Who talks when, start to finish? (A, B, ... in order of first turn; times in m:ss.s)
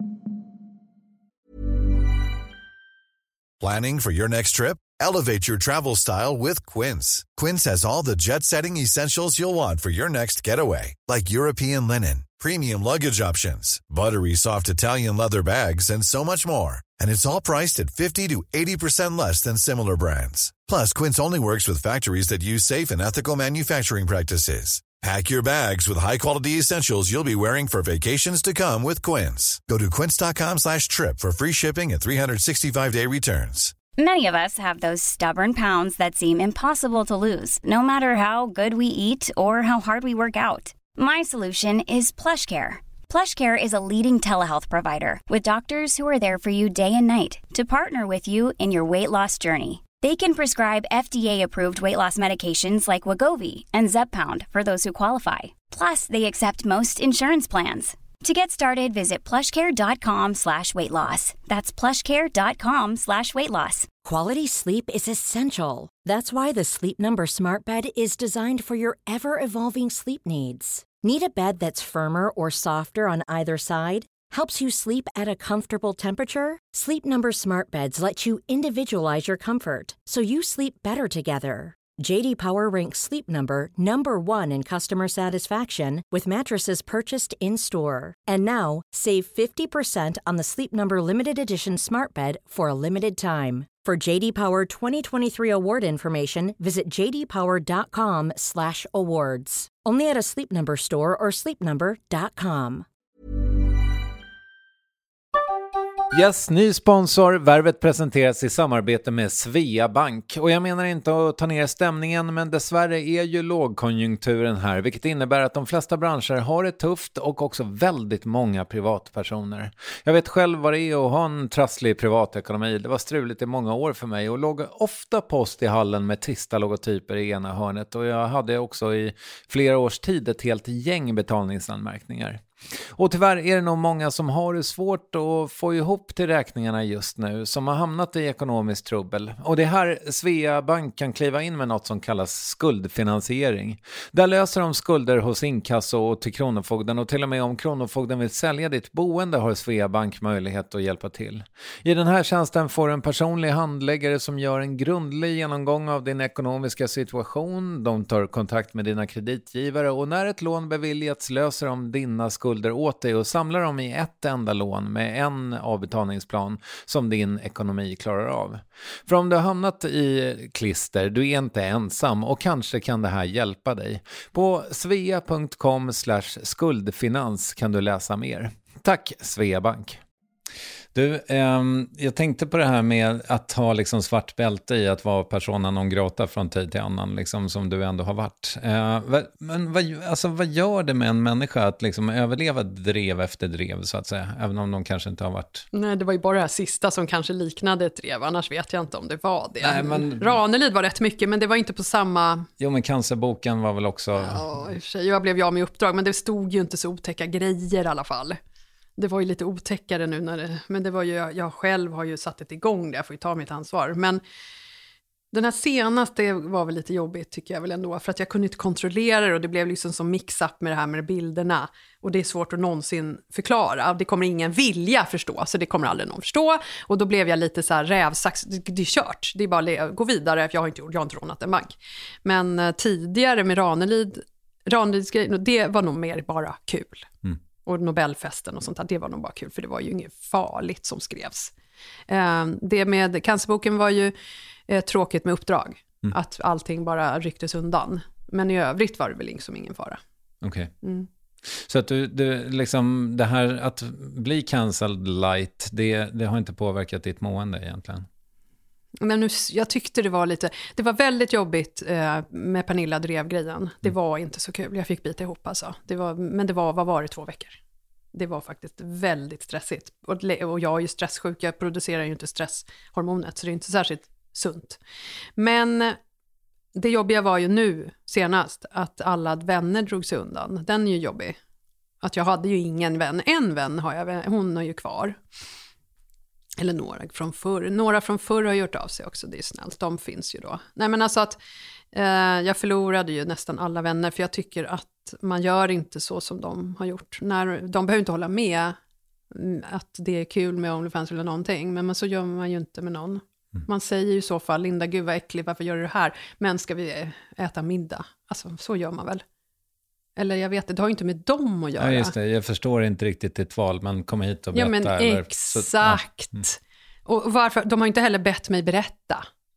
0:03.6-0:33.7 A
0:34.0-1:03.9 B
1:04.0-1:42.8 C
1:46.1-3:00.0 D
3:00.9-3:15.7 D
3:15.7-3:22.5 E
3:19.6-3:20.3 D
3:22.6-3:24.4 D
3:24.2-3:28.4 E
3:29.0-3:34.2 E
3:35.3-3:57.1 E
3:57.6-4:01.5 E
4:02.1-4:04.1 E
4:04.7-4:10.0 E
4:10.4-4:10.7 D
4:10.8-4:11.1 E
4:11.5-4:18.1 D
4:19.0-4:27.6 E
4:28.1-4:34.8 E
4:35.4-4:36.0 E
4:36.7-4:41.4 E
4:42.0-4:45.2 E
4:46.6-4:51.4 E
4:51.9-4:58.8 E
4:59.3-5:09.2 E
5:10.2-5:12.1 E
5:11.8-5:16.4 D
5:14.5-5:19.2 E